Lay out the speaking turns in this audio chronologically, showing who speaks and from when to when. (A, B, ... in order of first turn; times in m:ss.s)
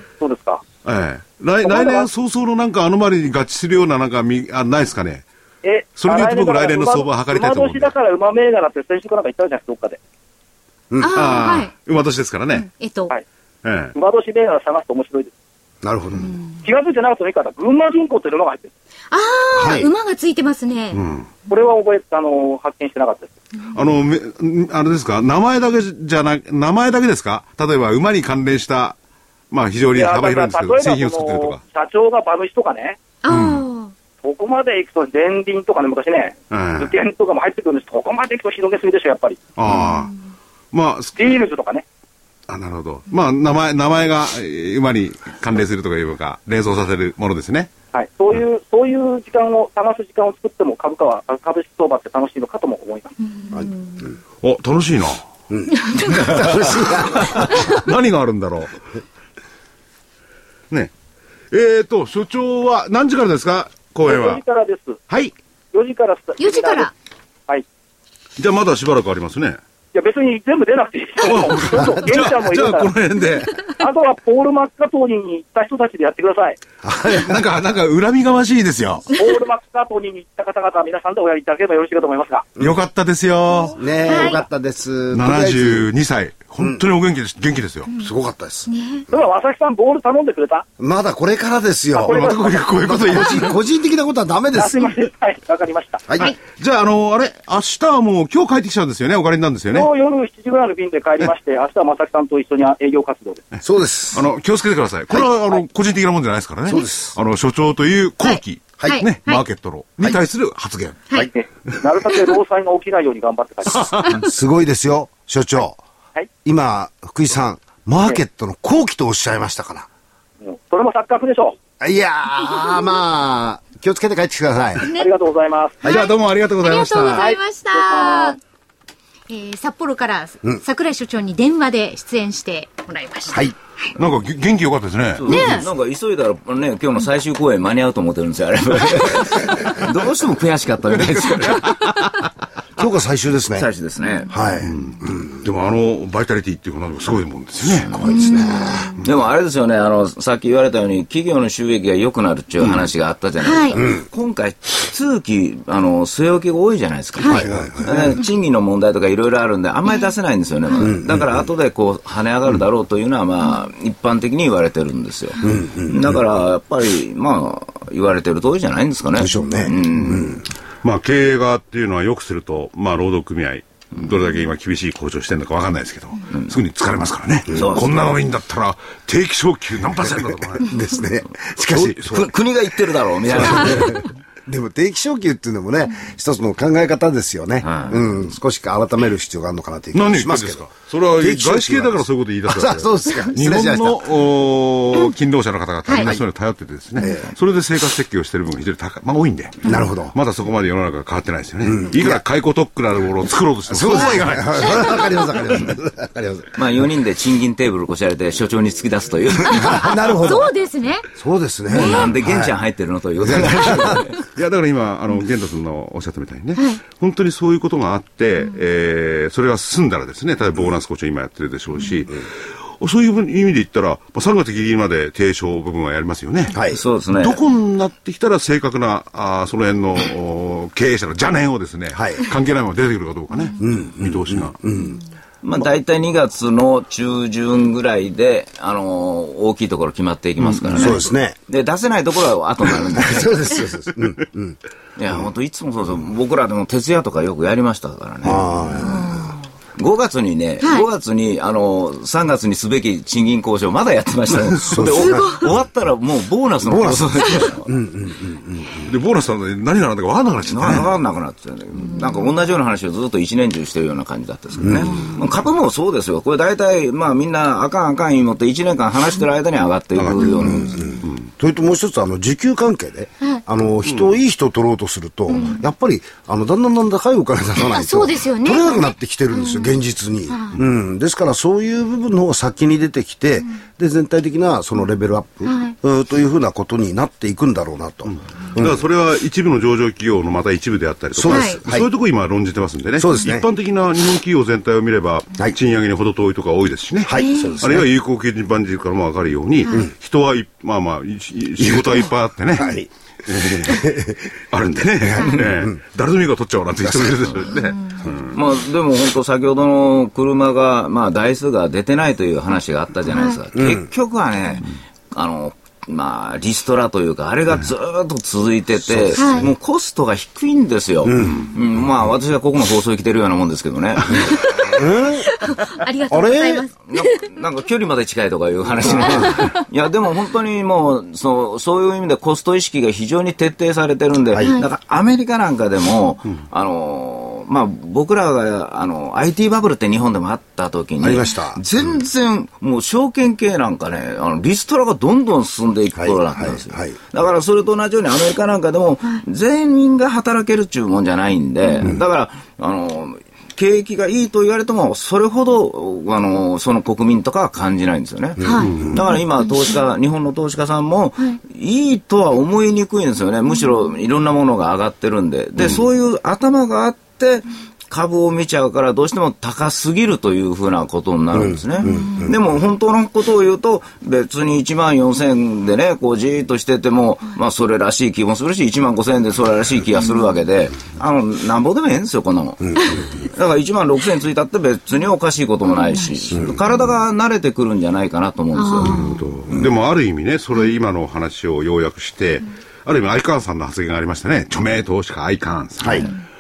0:00.2-0:00.6 A
0:00.8-0:05.2 B
0:01.6-0:02.1 A
0:05.6-0:10.0 A
0:06.0-0:07.9 B
0:10.9-0:11.2 C
0:11.0-0:11.7 D
0:11.1-0:12.7 B
0:12.6-0:13.1 D
0:13.6-0:13.9 B
0:13.9-0:15.3 A
0:15.8-0:16.4 C
0:16.2-0:16.4 D
0:16.6-0:18.7 A
0:19.1-0:21.0 D
0:19.5-0:19.9 C
0:20.9-0:21.3 B
0:21.5-0:23.3 A
0:23.7-0:29.0 B
0:29.5-0:31.6 B
0:29.9-0:33.0 A
0:33.2-0:33.9 D
0:33.3-0:33.6 B
0:34.2-0:39.4 A
0:36.5-0:36.9 B
0:39.6-0:40.1 B
0:40.7-0:41.3 B
0:41.2-0:41.8 A
0:42.5-0:47.7 B
0:47.9-0:53.1 A
0:54.4-0:55.3 B
0:55.5-0:57.8 C
0:56.0-0:58.8 B
1:01.5-1:04.4 B
1:04.1-1:05.0 A
1:05.7-1:06.9 A
1:06.4-1:06.9 D
1:08.4-1:09.6 B
1:09.9-1:12.9 A
1:11.2-1:13.6 B
1:13.8-1:16.6 A
1:16.8-1:17.4 C
1:17.1-1:19.1 B
1:19.1-1:22.4 A
1:22.6-1:23.9 B
1:23.8-1:25.9 C
1:24.1-1:24.4 D
1:25.1-1:27.9 B
1:28.0-1:28.7 C
1:28.7-1:29.1 D
1:29.1-1:30.6 A
1:30.8-1:34.9 C
1:32.0-1:32.7 A
1:32.1-1:33.6 B
1:34.5-1:36.0 A
1:36.1-1:36.3 C
1:36.5-1:39.9 B
1:39.7-1:43.4 A
1:43.6-1:44.3 C
1:44.1-1:51.0 B
1:46.7-1:47.2 C
1:48.2-1:49.4 D
1:51.2-1:54.0 A
1:54.0-1:55.8 C
1:56.4-1:59.9 C
2:00.4-2:01.6 A
2:01.8-2:04.9 C
2:04.8-2:05.8 A
2:05.8-2:08.4 D
2:05.8-2:07.3 B
2:07.1-2:08.4 A
2:09.3-2:13.9 D
2:14.0-2:15.4 B
2:15.2-2:22.0 E
2:15.3-2:15.7 D
2:22.8-2:23.7 C
2:23.6-2:24.3 E
2:24.0-2:24.3 D
2:24.3-2:25.4 C
2:24.6-2:28.0 B
2:27.9-2:28.9 C
2:28.0-2:29.0 D
2:29.0-2:50.4 E
2:33.4-2:33.8 D
2:33.8-2:34.0 C
2:37.2-2:37.4 D
2:37.2-2:38.2 C
2:40.7-2:41.0 D
2:40.8-2:41.2 C
2:45.4-2:46.1 C
2:49.2-2:50.4 C
2:50.8-3:00.7 B
2:57.5-2:57.9 E
3:00.3-3:02.2 C
3:01.7-3:02.3 B
3:02.1-3:04.1 E
3:03.3-3:14.1 C
3:07.6-3:08.1 E
3:09.9-3:25.1 B
3:15.9-3:16.1 D
3:16.0-3:16.2 C
3:17.0-3:17.3 C
3:19.6-3:20.2 C
3:21.6-3:22.2 C
3:23.7-3:26.6 C
3:26.6-3:30.0 E
3:29.6-3:30.5 C
3:29.6-3:31.1 D
3:31.2-3:32.5 C
3:31.7-3:32.1 D
3:31.7-3:34.2 E
3:33.2-3:34.0 C
3:34.3-3:46.6 B
3:46.5-3:46.8 C
3:46.7-3:47.4 E
3:47.2-3:54.6 B
3:51.9-3:52.2 C
3:53.3-3:53.6 D
3:53.6-3:55.0 C
3:55.4-4:03.3 E
4:00.7-4:01.4 C
4:03.0-4:04.6 C
4:05.0-4:08.5 E
4:08.2-4:09.3 C
4:08.8-4:09.4 D
4:09.8-4:17.7 E
4:10.6-4:10.9 D
4:14.6-4:15.3 C
4:14.9-4:15.5 D
4:16.6-4:18.9 C
4:18.8-4:20.9 B
4:20.5-4:30.8 E
4:24.6-4:24.9 C
4:30.0-4:31.3 B
4:30.2-4:30.9 D
4:30.5-4:30.9 C
4:31.4-4:48.8 C
4:35.3-4:35.6 D
4:37.6-4:40.6 D
4:45.4-4:45.8 D
4:48.5-5:02.8 B
4:51.2-4:51.9 C
4:51.3-4:51.6 D
4:53.0-4:53.5 C
4:57.0-4:57.9 C
4:57.2-4:57.6 D
5:01.6-5:02.1 C
5:02.6-5:04.3 C
5:03.3-5:03.8 B
5:04.5-5:08.4 B
5:05.0-5:05.8 C
5:06.8-5:07.4 C
5:07.6-5:08.0 D
5:08.3-5:24.6 E
5:13.1-5:13.4 D
5:13.6-5:13.8 C
5:19.2-5:19.5 D
5:21.0-5:21.5 C
5:24.3-5:27.4 D
5:24.6-5:25.3 C
5:26.1-5:26.7 C
5:26.9-6:29.1 E
5:29.1-5:29.6 D
5:34.4-5:34.7 D
5:41.0-5:41.6 C
5:46.0-5:47.0 C
5:58.4-5:59.0 C
5:58.4-5:59.2 D
5:58.6-5:59.0 B
6:11.3-6:12.4 C
6:11.8-6:12.3 D
6:28.6-6:29.0 D
6:28.9-6:36.2 B
6:35.8-6:36.1 C